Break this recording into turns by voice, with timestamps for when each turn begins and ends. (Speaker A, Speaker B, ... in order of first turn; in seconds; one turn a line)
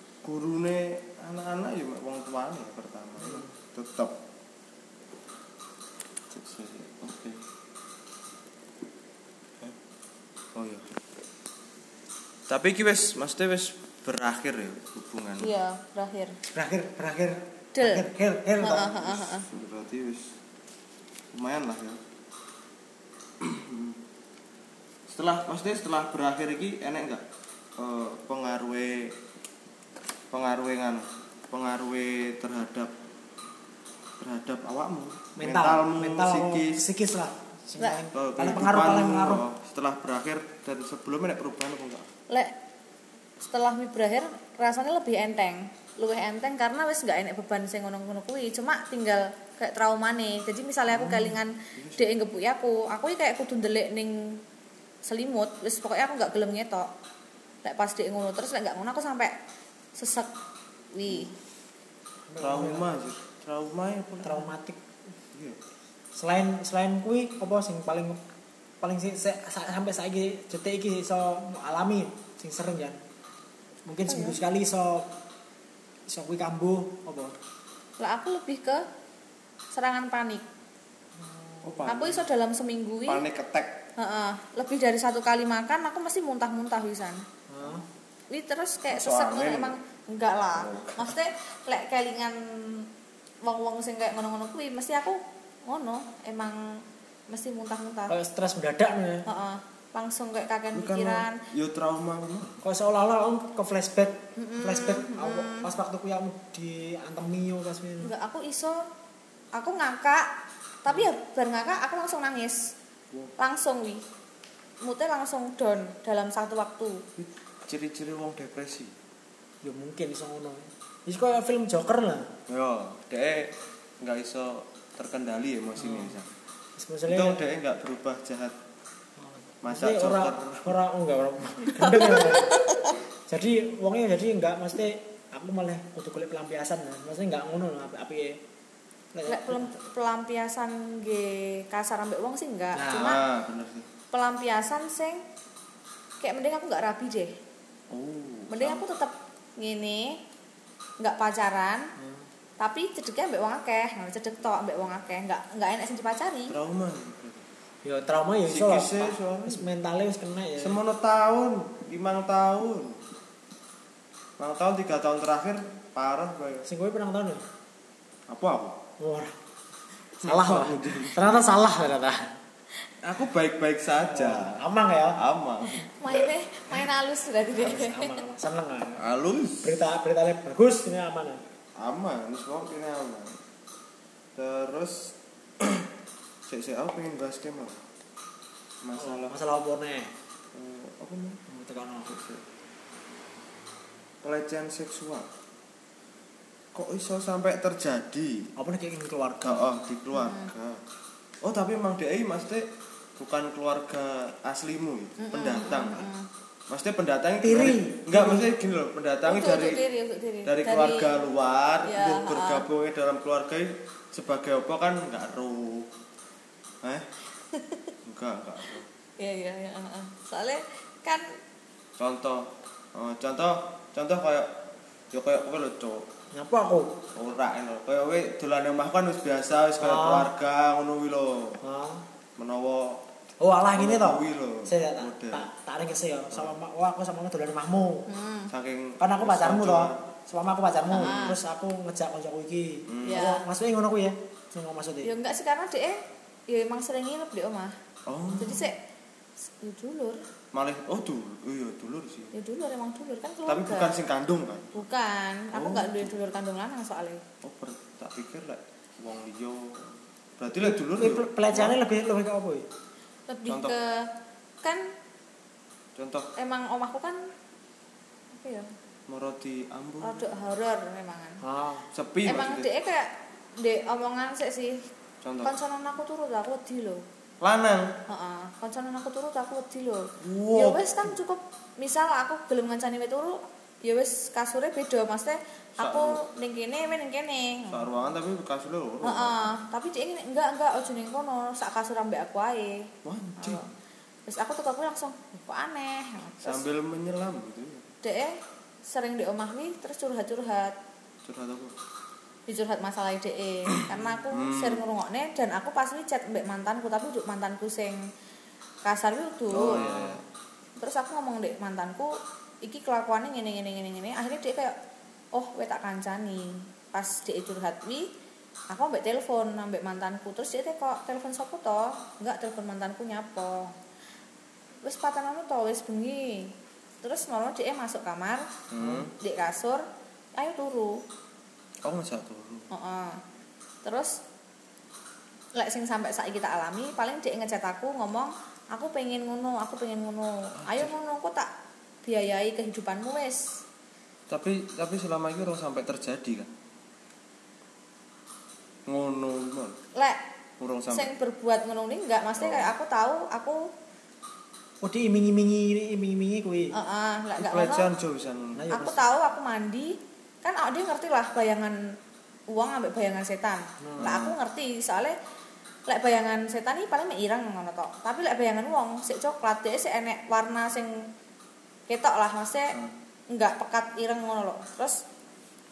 Speaker A: 0.2-4.1
Speaker B: 3.2-3.5
Speaker A: 6.3-7.4
Speaker A: 10.5-10.9
Speaker A: 12.5-15.5
Speaker C: 15.4-16.4
Speaker B: 16.5-19.0
Speaker C: 17.7-18.1
Speaker C: 18.6-19.5
Speaker A: 18.9-20.3
Speaker A: 21.3-22.0
Speaker A: 23.4-24.0
Speaker A: 25.1-27.2
Speaker A: 27.8-29.2
Speaker A: 30.3-32.9
Speaker A: 34.2-36.8
Speaker B: 35.4-39.4
Speaker C: 37.8-38.0
Speaker A: 38.1-42.1
Speaker C: 43.4-54.4
Speaker B: 50.9-51.4
Speaker A: 51.8-52.1
Speaker C: 55.0-56.9
Speaker C: 57.6-59.3
Speaker C: 60.0-60.3
Speaker C: 60.9-61.3
Speaker B: 62.3-63.0
Speaker A: 62.4-64.5
Speaker B: 64.2-64.8
Speaker A: 65.3-65.6
Speaker B: 66.1-68.2
Speaker B: 68.8-73.0
Speaker B: 73.8-75.1
Speaker C: 74.1-74.4
Speaker B: 76.1-77.3
Speaker C: 78.0-78.8
Speaker C: 79.7-80.4
Speaker B: 81.2-81.9
Speaker A: 81.6-82.2
Speaker C: 81.9-83.2
Speaker A: 83.1-83.8
Speaker C: 84.0-87.2
Speaker B: 87.5-87.8
Speaker C: 88.3-92.9
Speaker A: 88.9-89.8
Speaker A: 90.5-91.2
Speaker C: 93.4-98.1
Speaker B: 98.1-99.2
Speaker C: 99.2-101.4
Speaker A: 100.7-102.6
Speaker B: 102.6-108.1
Speaker C: 104.3-105.7
Speaker C: 108.0-108.8
Speaker C: 109.5-110.3
Speaker C: 110.8-112.7
Speaker C: 113.4-114.0
Speaker C: 114.8-117.0
Speaker A: 117.2-118.9
Speaker B: 119.6-122.3
Speaker A: 122.5-126.3
Speaker B: 125.8-126.2
Speaker B: 126.8-127.4
Speaker A: 127.1-128.5
Speaker B: 129.2-132.7
Speaker A: 129.6-130.8
Speaker C: 131.8-133.0
Speaker B: 133.3-138.4
Speaker B: 139.1-139.7
Speaker C: 139.3-143.2
Speaker B: 142.7-143.2
Speaker A: 142.9-143.9
Speaker C: 144.1-145.2
Speaker C: 146.2-147.3
Speaker A: 147.9-148.8
Speaker C: 148.5-150.2
Speaker C: 151.0-151.9
Speaker B: 152.0-152.2
Speaker C: 152.6-156.5
Speaker A: 156.5-157.4
Speaker B: 157.8-160.8
Speaker A: 158.5-159.7
Speaker A: 160.6-163.0
Speaker A: 164.4-166.7
Speaker B: 166.6-167.4
Speaker A: 168.3-168.8
Speaker B: 169.0-169.3
Speaker A: 170.2-171.2
Speaker B: 170.2-172.3
Speaker A: 173.0-174.6
Speaker B: 174.0-175.2
Speaker A: 175.1-176.2
Speaker C: 175.7-178.2
Speaker B: 177.6-179.1
Speaker A: 179.0-179.7
Speaker B: 179.6-181.4
Speaker A: 181.8-183.4
Speaker A: 184.3-185.9
Speaker A: 186.5-187.8
Speaker A: 188.8-189.3
Speaker B: 188.9-190.1
Speaker A: 190.5-191.4
Speaker B: 191.5-192.2
Speaker A: 192.1-192.4
Speaker A: 194.2-195.2
Speaker A: 196.7-198.5
Speaker B: 198.6-199.6
Speaker A: 199.4-200.8
Speaker C: 200.1-200.5
Speaker A: 201.4-202.7
Speaker A: 203.2-206.1
Speaker C: 205.2-206.3
Speaker A: 206.7-209.8
Speaker B: 207.4-208.5
Speaker C: 209.2-211.2
Speaker A: 210.4-215.9
Speaker C: 211.9-212.6
Speaker C: 217.5-217.9
Speaker A: 218.1-218.9
Speaker C: 219.2-221.2
Speaker A: 222.0-224.5
Speaker A: 225.1-226.1
Speaker B: 226.3-227.0
Speaker A: 227.1-231.6
Speaker B: 229.8-230.3
Speaker B: 231.6-232.0
Speaker A: 232.4-233.0
Speaker B: 233.4-238.1
Speaker A: 233.7-235.5
Speaker C: 238.1-238.5
Speaker A: 238.5-240.0
Speaker B: 239.0-245.1
Speaker C: 240.9-241.4
Speaker A: 240.9-241.3
Speaker A: 242.9-243.2
Speaker C: 243.1-243.4
Speaker C: 245.0-247.8
Speaker A: 248.1-248.7
Speaker C: 248.4-248.8
Speaker C: 249.4-250.2
Speaker A: 250.5-252.3
Speaker C: 252.3-253.9
Speaker A: 253.5-254.8
Speaker C: 254.7-257.2
Speaker A: 255.5-256.3
Speaker A: 257.4-261.8
Speaker B: 260.5-262.7
Speaker C: 263.3-264.1
Speaker A: 263.5-263.8
Speaker A: 265.9-266.3
Speaker C: 266.4-267.2
Speaker C: 268.3-268.7
Speaker A: 269.1-270.3
Speaker C: 270.0-271.4
Speaker B: 271.4-271.9
Speaker A: 271.9-272.7
Speaker C: 272.2-274.8
Speaker A: 275.2-275.5
Speaker C: 275.4-277.0
Speaker A: 277.4-277.9
Speaker C: 278.1-287.9
Speaker A: 280.2-280.9
Speaker A: 285.8-286.2
Speaker A: 287.7-289.5
Speaker C: 289.0-292.9
Speaker A: 293.0-293.6
Speaker C: 293.4-293.6
Speaker C: 294.3-296.6
Speaker A: 296.4-297.9
Speaker C: 298.0-300.7
Speaker A: 301.2-301.7
Speaker C: 302.5-308.0
Speaker A: 304.3-304.8
Speaker C: 308.8-309.8
Speaker A: 309.5-310.2
Speaker B: 309.6-310.2
Speaker C: 310.8-314.8
Speaker C: 315.3-318.1
Speaker C: 318.7-323.7
Speaker C: 324.8-328.5
Speaker A: 328.7-329.1
Speaker B: 328.8-329.1
Speaker C: 329.1-329.8
Speaker C: 330.4-331.0
Speaker A: 331.8-332.7
Speaker C: 332.7-333.2
Speaker C: 333.8-334.2
Speaker C: 335.5-341.5
Speaker A: 340.6-340.9
Speaker C: 342.0-343.6
Speaker A: 344.3-346.5
Speaker A: 348.9-349.8
Speaker C: 349.9-350.2
Speaker A: 350.6-351.1
Speaker C: 350.9-353.7
Speaker A: 352.4-352.7
Speaker B: 354.8-356.7
Speaker C: 356.7-357.9
Speaker A: 357.4-358.7
Speaker B: 358.5-359.1
Speaker C: 358.7-361.9
Speaker C: 362.5-365.1
Speaker B: 363.8-364.2
Speaker A: 364.0-364.4
Speaker C: 365.9-371.1
Speaker C: 371.9-372.8
Speaker C: 373.3-375.0